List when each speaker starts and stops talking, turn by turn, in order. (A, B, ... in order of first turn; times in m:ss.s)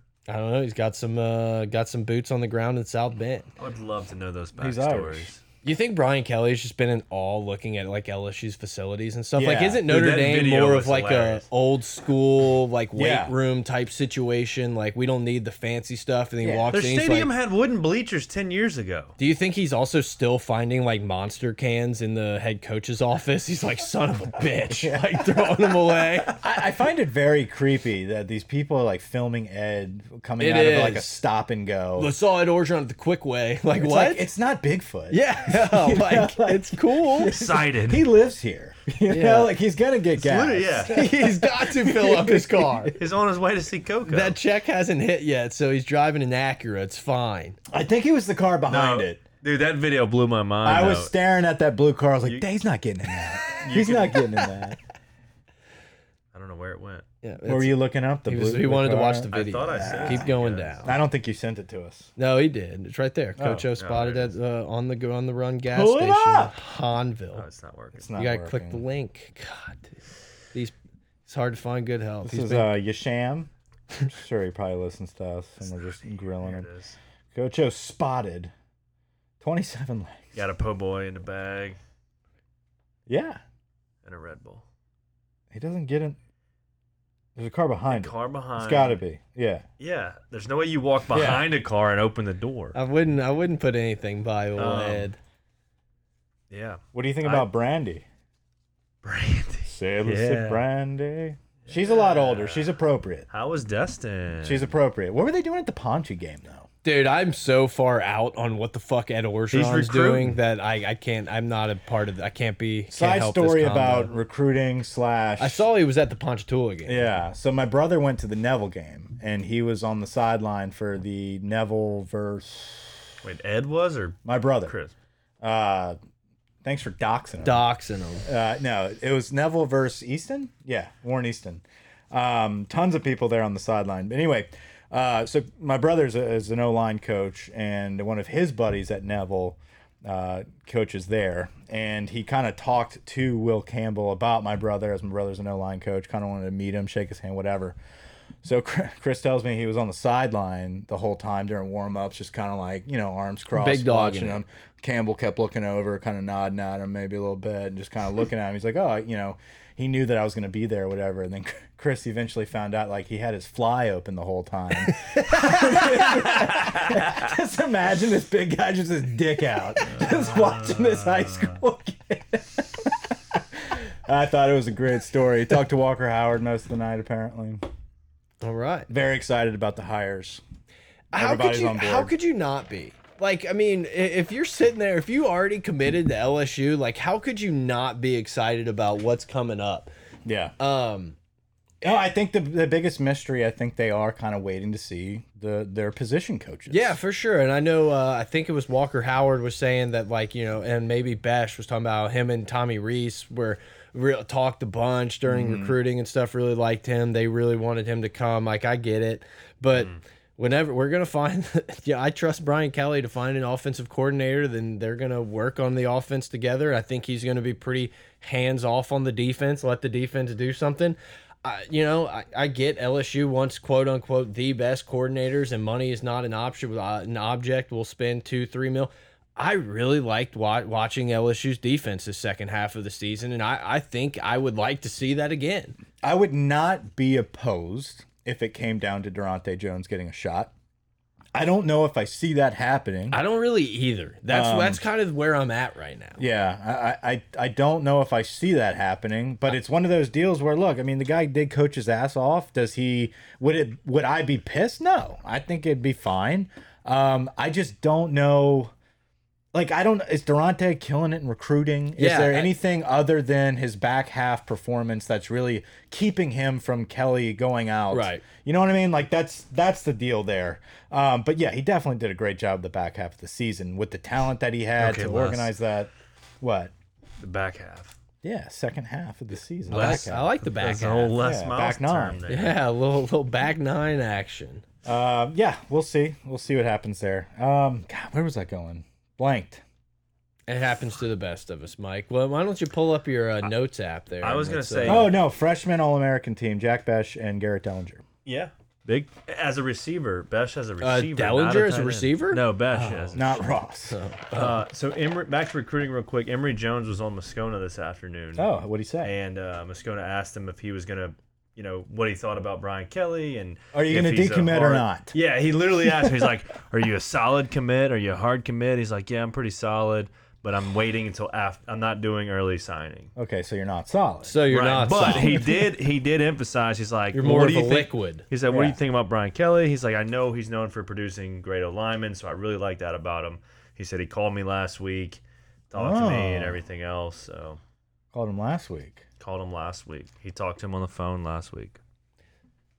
0:00.3-0:03.5 A
0:03.6-0:05.4 B
0:04.6-0:05.3 C
0:05.6-0:17.3 A
0:09.4-0:09.8 C
0:09.8-0:11.4 B
0:12.9-0:13.3 C
0:16.4-0:16.7 C
0:16.7-0:19.1 B
0:19.2-0:26.4 A
0:24.7-0:32.1 C
0:30.4-0:31.2 A
0:32.0-0:34.2 A
0:33.8-0:43.0 C
0:35.1-0:37.3 A
0:37.2-0:38.1 B
0:39.0-0:39.5 A
0:40.2-0:40.9 B
0:40.8-0:43.0 A
0:43.0-0:44.4 B
0:44.0-0:47.6 A
0:47.7-0:49.2 C
0:48.7-0:51.1 B
0:50.6-0:54.8 C
0:53.4-0:54.5 B
0:56.3-0:57.0 B
0:57.2-1:00.9 A
0:57.4-1:00.3 C
0:59.3-1:01.0 B
1:00.8-1:02.1 C
1:02.2-1:07.4 A
1:03.4-1:03.6 C
1:03.8-1:04.3 B
1:05.7-1:06.6 C
1:07.3-1:08.1 B
1:07.9-1:08.8 C
1:08.2-1:10.0 A
1:11.2-1:12.7 A
1:12.2-1:13.5 C
1:14.1-1:16.7 C
1:16.3-1:17.0 B
1:17.3-1:18.5 C
1:19.4-1:20.3 C
1:20.3-1:21.8 B
1:23.1-1:23.4 C
1:24.0-1:24.6 B
1:25.5-1:26.2 C
1:27.4-1:29.6 C
1:27.9-1:29.0 B
1:29.8-1:32.8 B
1:31.1-1:31.5 C
1:32.7-1:35.2 A
1:34.6-1:35.1 B
1:36.5-1:37.5 B
1:36.9-1:38.0 C
1:39.0-1:40.6 B
1:39.7-1:43.3 C
1:41.6-1:42.7 B
1:43.3-1:44.7 B
1:44.4-1:46.7 C
1:46.8-1:54.1 A
1:49.5-1:50.4 B
1:52.9-1:55.6 C
1:55.4-1:57.0 A
1:56.8-2:03.1 C
2:03.2-2:04.9 B
2:04.2-2:04.7 C
2:05.4-2:06.0 C
2:06.6-2:07.6 C
2:07.4-2:08.2 A
2:08.2-2:27.8 C
2:28.4-2:57.6 C
2:33.5-2:34.4 A
2:46.2-2:47.0 B
2:50.0-2:51.6 B
2:58.4-2:58.9 A
2:58.9-3:00.4 C
3:01.1-3:09.9 A
3:01.1-3:02.1 C
3:10.2-3:10.5 C
3:10.6-3:11.2 A
3:11.8-3:17.0 C
3:16.7-3:55.8 A
3:25.3-3:25.8 C
3:29.7-3:30.0 B
3:56.0-4:00.5 C
4:01.3-4:03.2 C
4:03.1-4:06.2 A
4:04.3-4:04.8 C
4:06.2-4:18.7 C
4:19.5-4:36.7 C
4:22.0-4:22.5 A
4:27.9-4:28.2 A
4:34.8-4:35.5 B
4:37.2-4:38.0 B
4:38.2-4:40.3 C
4:39.7-4:41.2 A
4:39.7-4:42.6 B
4:41.2-4:42.2 C
4:42.3-4:44.6 A
4:44.8-4:49.6 C
4:50.5-4:55.1 A
4:54.2-4:55.1 B
4:54.8-4:58.0 C
4:58.2-5:03.5 B
5:00.8-5:03.2 A
5:03.1-5:04.0 C
5:03.9-5:04.6 A
5:04.3-5:08.5 B
5:08.4-5:09.1 C
5:09.0-5:23.1 B
5:13.7-5:15.1 C
5:23.2-5:24.4 C
5:24.2-5:25.5 A
5:24.5-5:37.6 B
5:25.0-5:25.4 C
5:27.1-5:28.2 A
5:28.5-5:28.8 C
5:35.7-5:36.6 C
5:38.1-5:39.0 C
5:39.2-5:41.8 B